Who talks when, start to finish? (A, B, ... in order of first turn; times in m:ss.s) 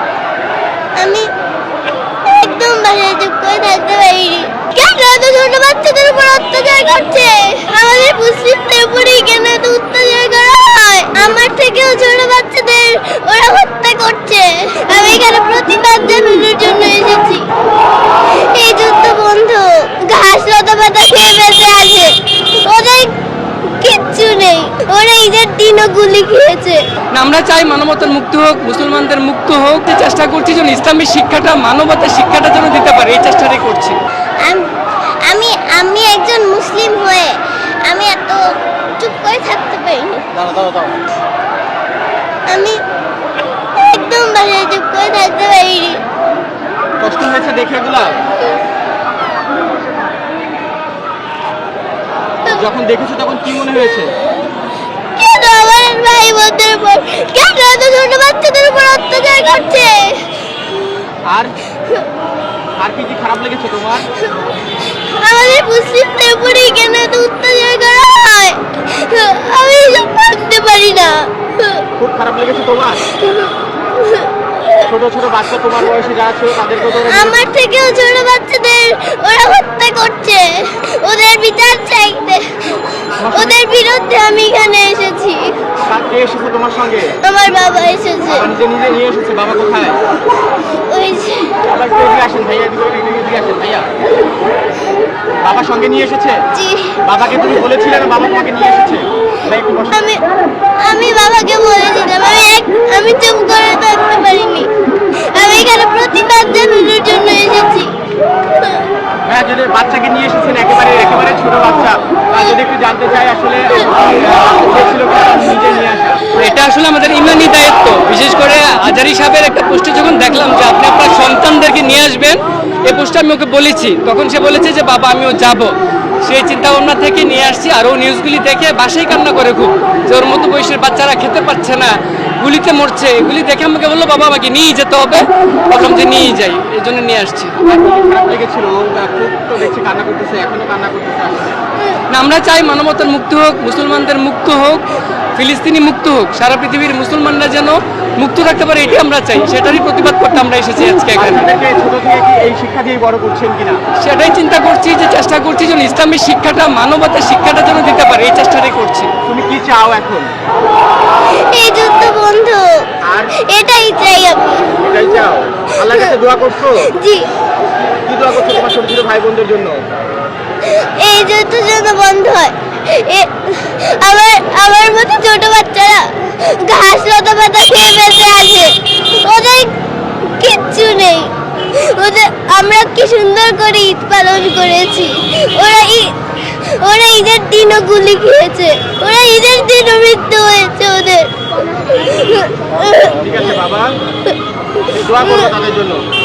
0:01.0-0:01.3 A
0:02.2-0:17.4 A
0:18.4-0:23.1 A
0:23.6-0:26.8 A
0:27.1-0:34.0 B
0:35.2-0:40.4 A
0:40.4-0:40.9 C
0:42.5-0:42.8 A
0:43.7-0:46.0 A
0:47.0-0:48.2 C
0:52.4-0:54.1 C
0:55.2-1:00.3 A
1:01.3-1:01.5 C
1:02.8-1:04.0 C
1:05.1-1:11.8 A
1:12.0-1:13.0 C
1:13.1-1:14.8 A
1:14.8-1:17.4 C
1:17.1-1:22.6 A
1:23.2-1:23.6 C
1:23.3-1:25.5 A
1:25.8-1:27.1 C
1:27.2-1:28.5 A
1:28.3-1:30.0 C
1:30.9-1:31.6 A
1:31.6-1:33.9 C
1:35.4-1:36.4 C
1:36.5-1:37.0 A
1:37.0-1:40.0 C
1:39.9-1:40.2 A
1:40.8-1:44.7 A
1:45.2-1:47.9 A
1:48.5-1:48.8 A
1:49.2-1:56.3 C
1:56.3-2:05.7 B
2:06.2-2:17.6 B
2:17.6-2:21.6 C
2:22.1-2:24.8 B
2:25.3-2:31.5 B
2:31.1-2:33.8 C
2:34.0-2:39.1 B
2:39.2-2:40.3 C
2:41.4-2:42.8 A
2:43.0-2:43.3 C
2:43.4-2:44.8 A
2:44.8-2:46.9 C
2:46.9-2:47.3 A
2:48.0-2:49.8 C
2:50.6-3:13.2 A
3:13.1-3:13.9 C
3:14.9-3:16.0 C
3:15.2-3:15.5 A